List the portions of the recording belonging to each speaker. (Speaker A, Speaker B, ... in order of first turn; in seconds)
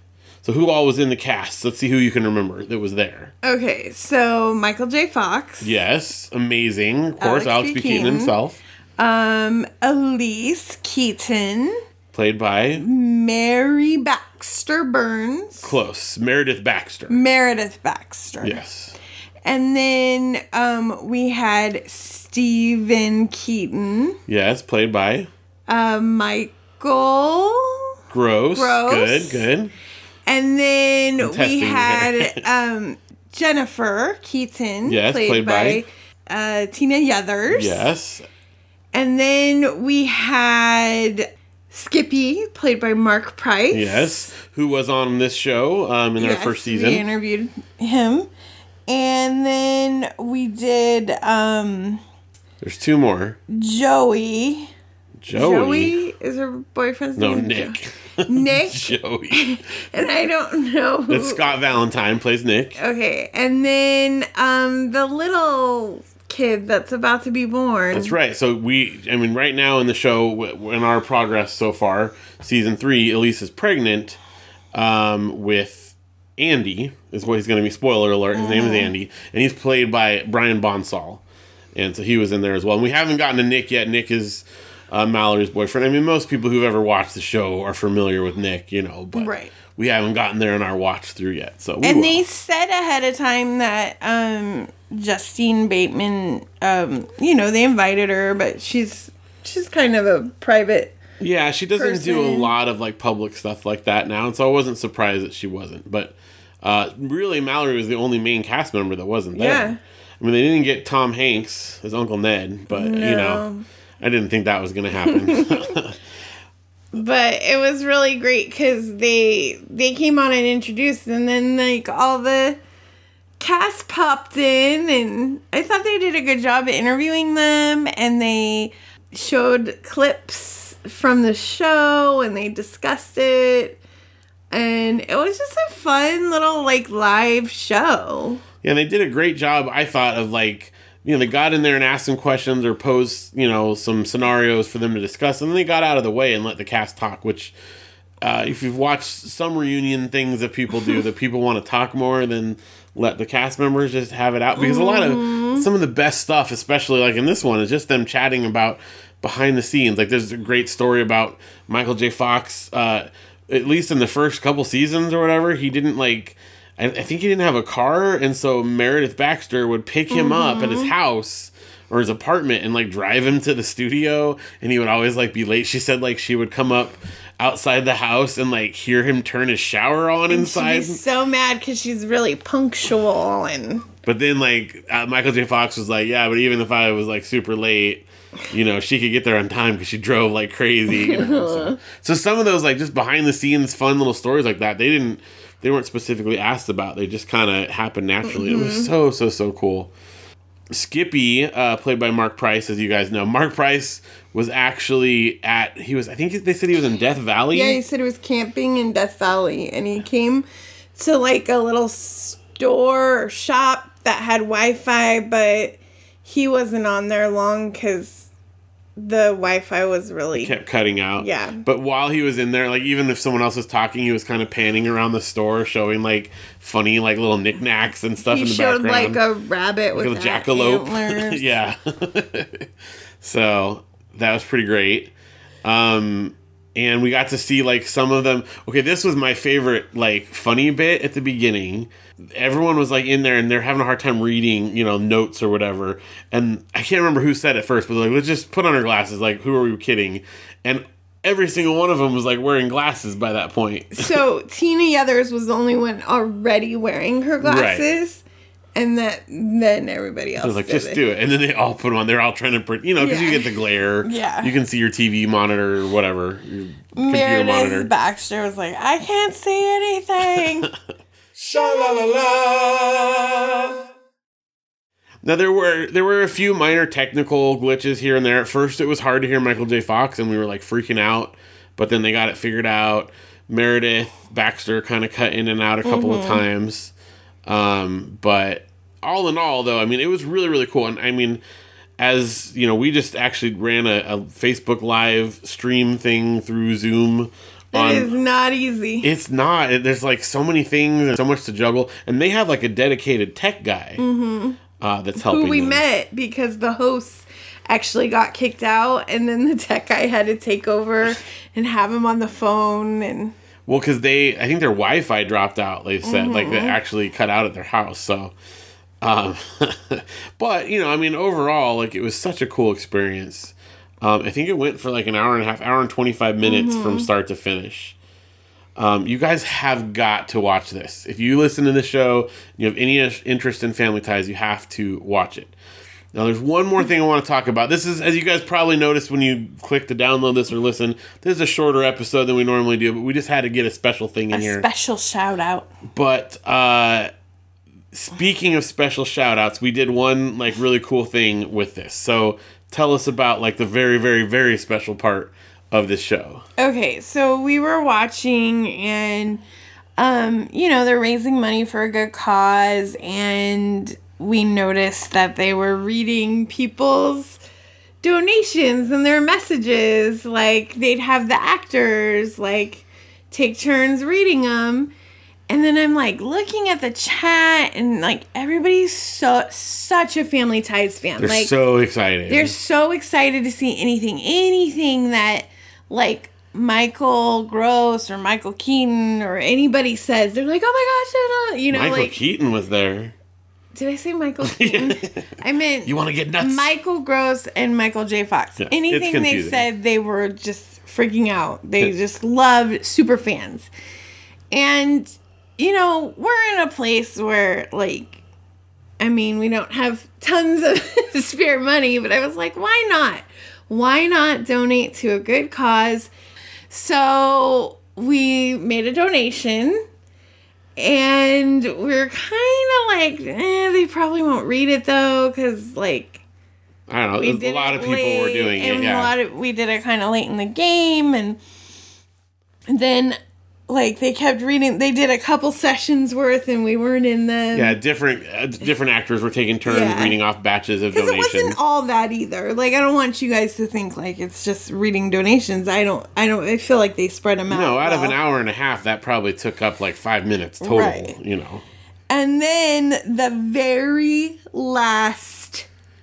Speaker A: 0.4-3.3, 5.6-8.6, 12.1-12.8, 15.6-17.2, 18.4-19.0, 24.3-25.3, 28.1-29.7, 31.2-32.4, 34.9-35.9, 37.5-38.3, 43.7-47.0, 52.6-53.4, 55.2-56.0, 57.2-59.5, 61.1-62.8, 67.9-74.2, 74.7-81.2, 81.8-92.2, 101.2-113.5, 114.0-116.0, 138.6-147.6, 148.2-181.0, 184.1-199.9, 200.7-207.8, 220.3-229.2, 229.9-232.7, 233.2-235.1, 235.7-254.2, 257.4-257.9, 260.4-267.9, 275.2-286.9, 287.5-291.4, 292.0-298.1, 299.0-304.0, 304.8-305.8, 313.7-318.3, 319.0-328.0, 328.8-335.5, 336.1-344.7, 345.9-347.1, 347.9-356.4, 381.2-382.6, 391.7-393.1, 394.4-395.2, 395.9-396.7, 398.6-399.7, 426.9-429.1, 437.5-441.6, 447.5-451.6
Speaker B: 3.4-5.8, 7.2-8.4, 9.0-11.8, 12.8-15.8, 17.1-18.6, 19.4-24.2, 25.7-27.9, 28.5-29.5, 30.2-37.9, 38.9-44.3, 46.2-48.3, 48.9-52.0, 53.5-54.7, 55.3-61.5, 62.8-68.2, 78.3-78.9, 89.2-89.5, 91.8-101.0, 101.7-102.5, 109.3-109.8, 112.7-113.7, 115.0-115.7, 116.9-122.6, 123.4-133.8, 134.5-138.4, 154.6-155.7, 170.1-170.9, 180.3-183.9, 190.9-191.8, 198.2-198.9, 207.5-218.3, 219.0-220.6, 221.2-221.6, 228.2-231.6, 254.0-258.2, 258.8-261.0, 263.0-264.6, 267.0-270.7, 285.8-286.5, 297.7-299.1, 304.0-304.6, 305.2-313.4, 316.0-316.8, 326.4-327.1, 344.3-345.7, 356.6-359.4, 360.0-367.4, 368.0-374.9, 375.5-381.5, 382.3-392.2, 393.7-403.7, 404.5-408.2, 409.0-416.1, 416.7-419.8, 420.8-426.2, 427.2-431.4, 432.7-437.8, 439.6-440.2, 440.9-448.2, 450.6-451.1, 452.1-455.7
Speaker C: 271.4-273.7